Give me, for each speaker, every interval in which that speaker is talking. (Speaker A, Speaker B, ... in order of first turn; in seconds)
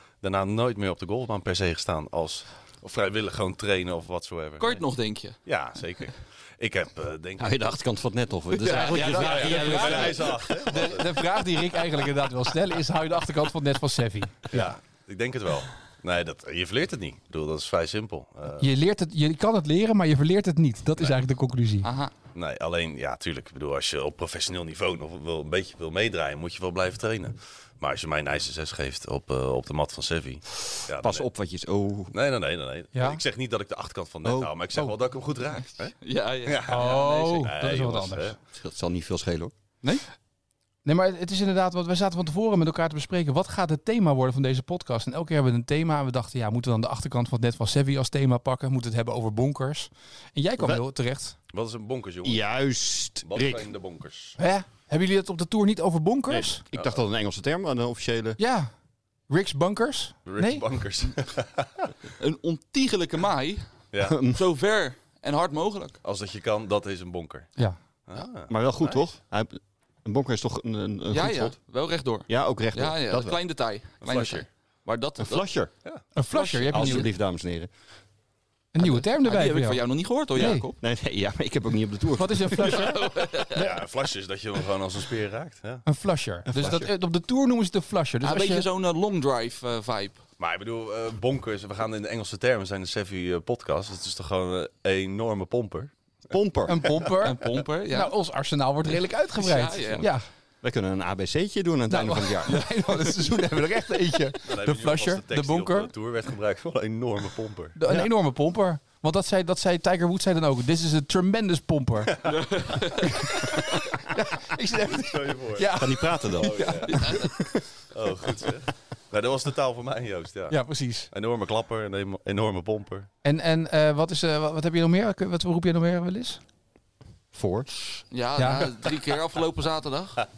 Speaker A: 0.2-4.8, 5.4-7.7, 9.0-11.1, 14.5-18.7, 22.3-31.3, 32.1-38.4, 51.5-52.4, 53.2-54.4, 60.2-61.8, 66.0-67.5, 68.1-69.1, 74.0-74.5, 83.5-85.8, 90.4-95.9, 104.5-107.8, 114.9-117.1, 117.9-120.6, 121.1-123.1
Speaker B: 4.6-5.4, 8.5-10.2, 21.8-22.1, 36.0-37.5, 62.2-63.7, 64.2-66.0, 71.1-75.5, 76.3-77.1, 78.8-80.8, 82.6-83.8, 88.2-90.2, 97.2-98.1, 99.3-100.1, 112.2-113.6, 116.8-117.3, 128.1-130.3
Speaker C: 7.4-10.5, 31.0-32.1, 34.2-34.5, 38.5-39.5, 50.6-50.8, 52.2-53.7, 56.3-58.4, 64.0-64.4, 68.5-71.6, 72.3-73.4, 75.2-75.7, 76.7-77.7, 80.8-82.9, 86.5-86.9, 96.3-97.0, 100.6-102.6, 115.7-117.6, 127.3-127.7
Speaker D: 8.7-14.5, 18.6-21.9, 32.9-33.2, 36.7-38.3, 40.8-51.4, 54.4-56.6, 58.4-58.7, 59.3-60.6, 76.1-77.1, 78.7-79.8, 80.3-80.7, 82.2-83.0, 85.8-88.7, 96.7-100.2, 101.9-105.9, 107.8-112.2, 113.0-117.2, 120.5-121.1, 123.2-126.4, 128.4-128.7